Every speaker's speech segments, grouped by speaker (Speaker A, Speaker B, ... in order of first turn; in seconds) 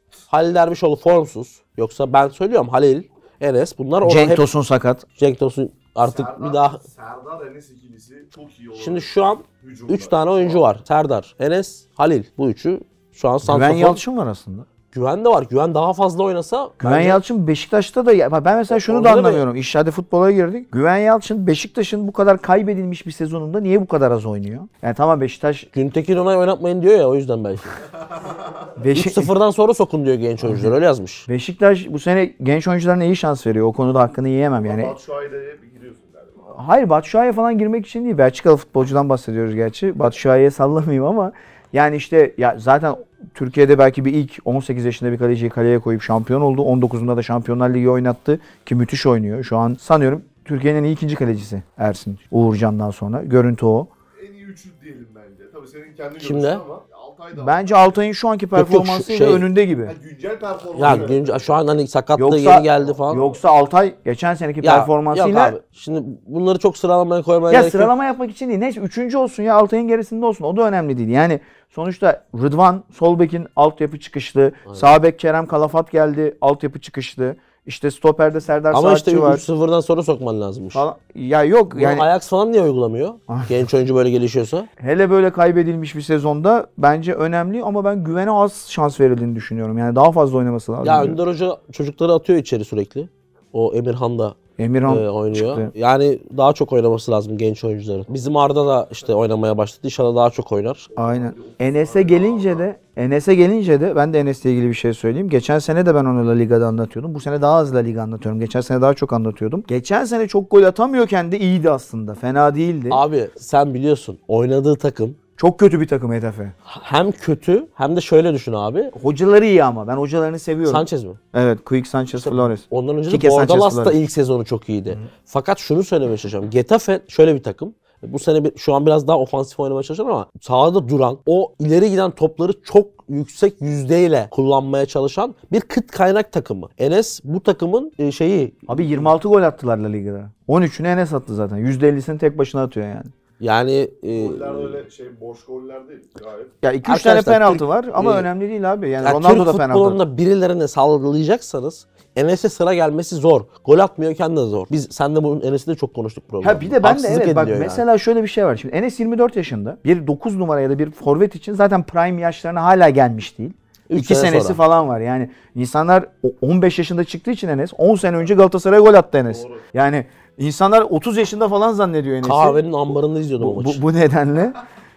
Speaker A: 0.3-4.5, 5.2-6.8, 8.7-14.0, 14.9-17.2, 18.7-19.4, 25.7-27.8, 28.9-31.3, 56.2-56.6, 58.5-59.5, 60.8-63.2, 64.6-67.9, 74.7-74.9, 78.7-80.8, 81.7-84.7, 90.8-100.9, 112.9-115.2, 116.7-118.9, 120.7-121.2, 122.2-139.1, 143.4-144.8, 146.8-148.3, 149.0-157.8, 163.9-164.6, 172.2-173.8
Speaker B: 4.0-5.0, 13.4-14.7, 16.8-25.7, 28.8-29.3, 30.4-30.7, 31.3-34.9, 36.5-53.9, 57.4-59.9, 62.2-65.6, 67.5-79.4, 80.7-82.1, 84.8-91.2, 94.6-95.7, 101.0-113.0, 115.4-116.5, 119.0-124.0, 138.7-143.1, 146.6-150.0, 156.4-172.6, 173.4-174.6
Speaker C: 6.0-10.6, 28.2-28.6, 34.5-36.5, 54.2-58.0, 59.9-61.5, 62.7-63.4, 100.9-102.7, 144.1-146.6, 169.2-169.7